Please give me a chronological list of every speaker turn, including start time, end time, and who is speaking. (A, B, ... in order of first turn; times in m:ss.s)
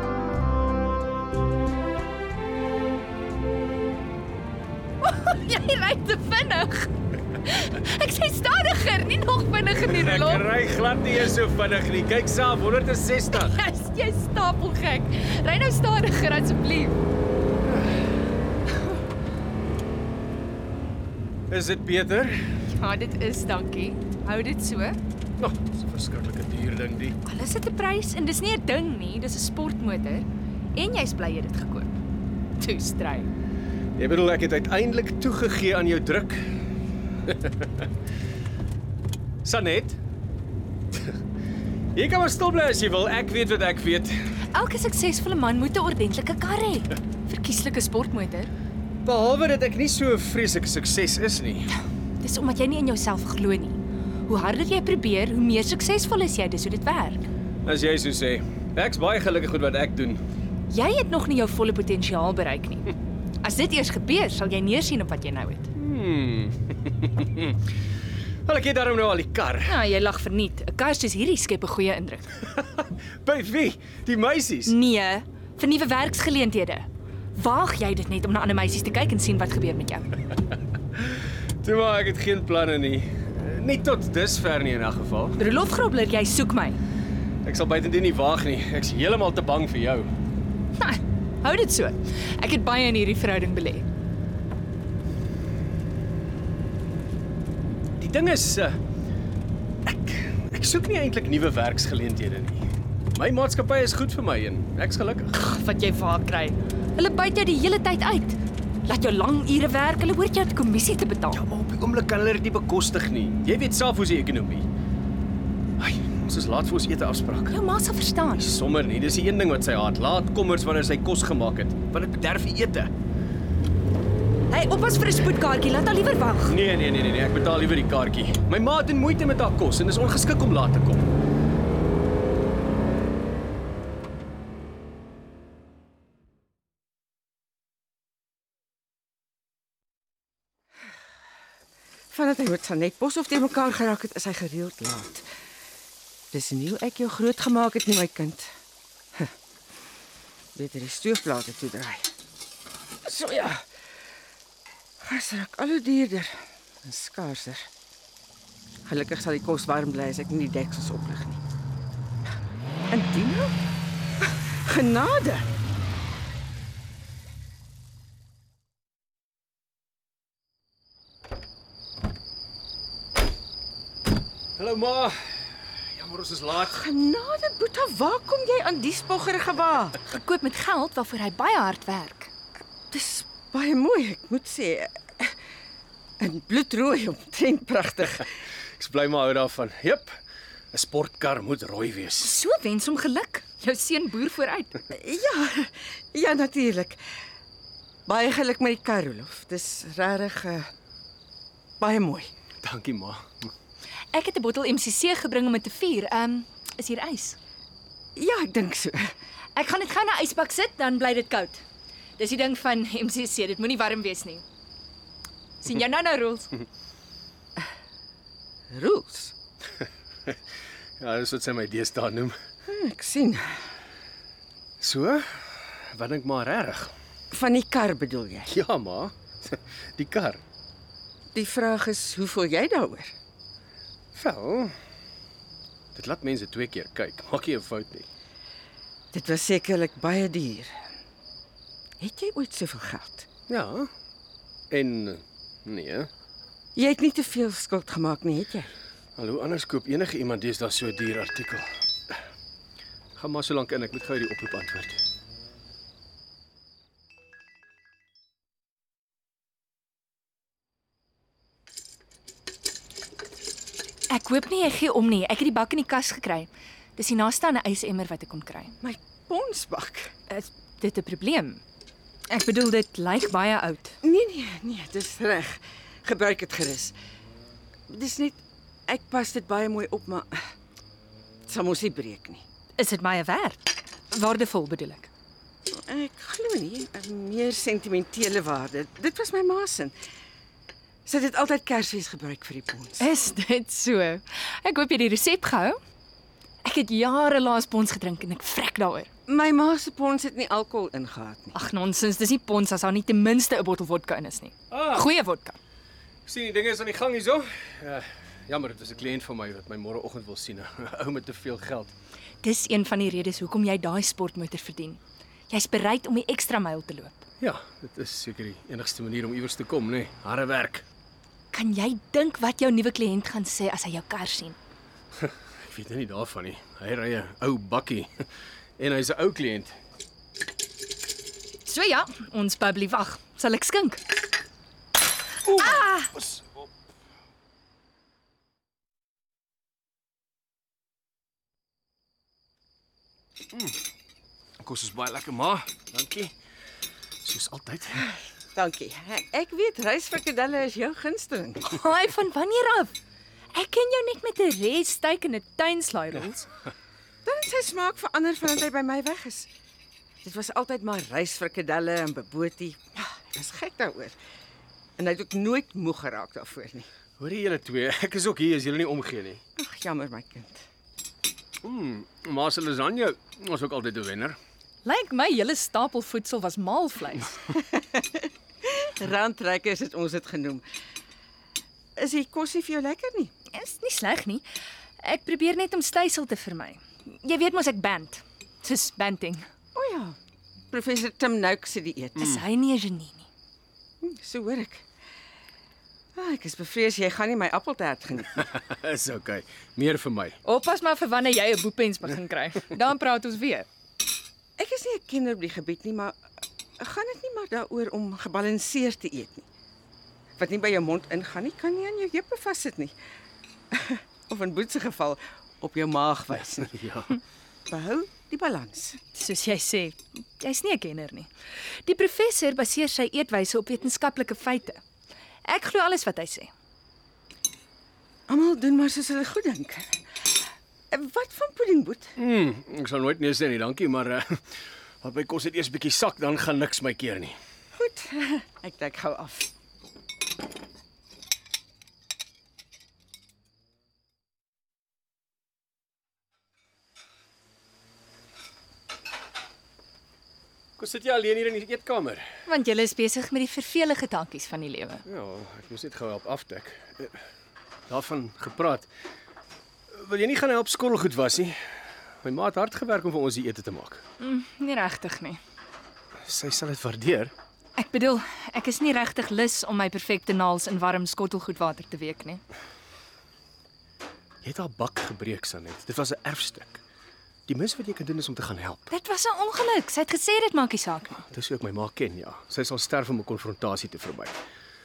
0:05.0-0:10.5 A
0:09.8-0:13.6 B
0:13.4-0:17.0 A
0:21.5-0:22.4 B
0:22.7-0:25.0 A
0:25.4-0:27.2 B
0:27.2-0:32.0 A
0:32.6-0:33.3 A
0:34.0-0:36.4 B
0:37.3-0:37.8 B
0:39.4-0:40.0 B
0:41.9-0:44.2 B
0:44.5-0:48.5 A
0:49.0-0:51.7 B
0:52.2-0:57.3 A
0:57.6-1:00.2 B
1:00.7-1:05.7 A
1:05.7-1:07.6 B
1:08.5-1:09.8 B
1:09.6-1:12.3 A
1:12.4-1:14.7 B
1:14.6-1:20.1 A
1:20.9-1:25.4 B
1:25.4-1:26.8 A
1:27.4-1:30.1 B
1:30.8-1:33.8 A
1:38.0-1:38.8 B
1:39.8-1:45.3 B
1:45.3-1:51.4 A
1:51.3-1:54.6 B
1:55.8-1:57.5 B
1:57.5-1:58.5 A
1:58.3-2:02.9 B
2:04.5-2:06.6 A
2:06.5-2:11.1 B
2:22.1-2:25.2 C
2:26.3-2:28.5 C
2:30.5-2:32.1 C
2:33.0-2:33.6 C
2:35.0-2:37.7 C
2:38.8-2:41.4 C
2:42.9-2:43.6 C
2:44.2-2:45.5 C
2:54.6-2:56.8 B
2:56.6-3:00.0 C
3:00.1-3:02.3 A
3:02.9-3:05.3 C
3:06.2-3:08.3 C
3:08.8-3:10.2 B
3:10.7-3:12.3 B
3:12.2-3:14.7 A
3:14.9-3:17.0 C
3:18.1-3:20.7 C
3:21.8-3:22.3 C
3:22.6-3:23.2 B
3:24.1-3:27.4 A
3:28.2-3:29.1 C
3:29.5-3:31.6 A
3:32.2-3:34.4 A
3:35.6-3:36.5 A
3:38.7-3:39.3 C
3:41.0-3:42.4 B
3:42.7-3:43.6 C
3:44.8-3:46.9 B
3:47.3-3:48.5 C
3:48.5-3:50.4 B
3:51.3-3:53.1 C
3:54.1-3:54.7 B
3:55.9-3:58.0 B
3:59.1-4:00.7 C
4:02.0-4:03.3 C
4:03.5-4:03.9 B
4:04.7-4:06.1 B
4:06.8-4:08.7 C
4:09.2-4:12.2 B
4:13.2-4:15.0 B
4:24.1-4:28.8 A
4:28.8-4:30.1 C
4:30.3-4:31.6 A
4:32.3-4:34.0 A
4:34.0-4:36.9 C
4:37.9-4:40.4 C
4:41.5-4:42.4 C
4:42.8-4:45.1 A
4:45.7-4:49.9 C
4:51.0-4:53.1 C
4:53.0-4:55.8 A
4:56.6-4:59.1 A
4:59.3-5:01.5 C
5:01.5-5:05.6 A
5:04.7-5:05.1 B
5:06.2-5:11.9 B
5:12.4-5:17.2 A
5:17.4-5:20.8 B
5:21.5-5:24.6 A
5:25.2-5:28.2 B
5:28.8-5:29.7 B
5:31.6-5:34.0 A
5:35.4-5:36.5 B
5:35.7-5:35.9 A
5:44.6-5:46.3 B
5:47.2-5:48.1 B
5:48.5-5:51.7 C
5:51.7-5:52.9 A
5:53.5-5:56.5 A
5:57.2-5:59.5 C
6:00.2-6:04.2 C
6:05.0-6:06.9 C
6:07.2-6:09.4 B
6:09.6-6:10.6 C
6:11.6-6:14.4 B
6:14.8-6:17.4 A
6:17.7-6:20.6 C
6:22.0-6:23.3 C
6:23.5-6:24.4 A
6:25.0-6:29.4 A
6:29.7-6:30.2 C
6:30.7-6:32.2 C
6:32.2-6:33.2 A
6:34.0-6:34.8 C
6:36.2-6:38.4 C
6:38.3-6:40.4 B
6:40.4-6:43.7 A
6:44.6-6:46.2 C
6:46.8-6:49.4 C
6:50.4-6:52.9 C
6:53.7-6:56.7 C
6:56.4-6:57.2 B
6:57.7-6:59.0 C
6:59.1-7:04.8 A
7:05.4-7:06.5 A
7:08.3-7:10.0 C
7:10.9-7:12.1 C
7:12.2-7:14.4 B
7:15.0-7:17.4 B
7:17.7-7:19.5 C
7:30.8-7:32.2 B
7:32.4-7:35.0 A
7:35.0-7:37.2 B
7:37.9-7:38.9 B
7:39.9-7:41.6 B
7:42.2-7:44.0 B
7:44.2-7:45.4 A
7:46.2-7:47.3 B
7:47.8-7:52.4 A
7:54.4-7:56.8 B
7:57.5-7:58.9 B
7:58.9-8:01.2 A
8:01.3-8:04.4 B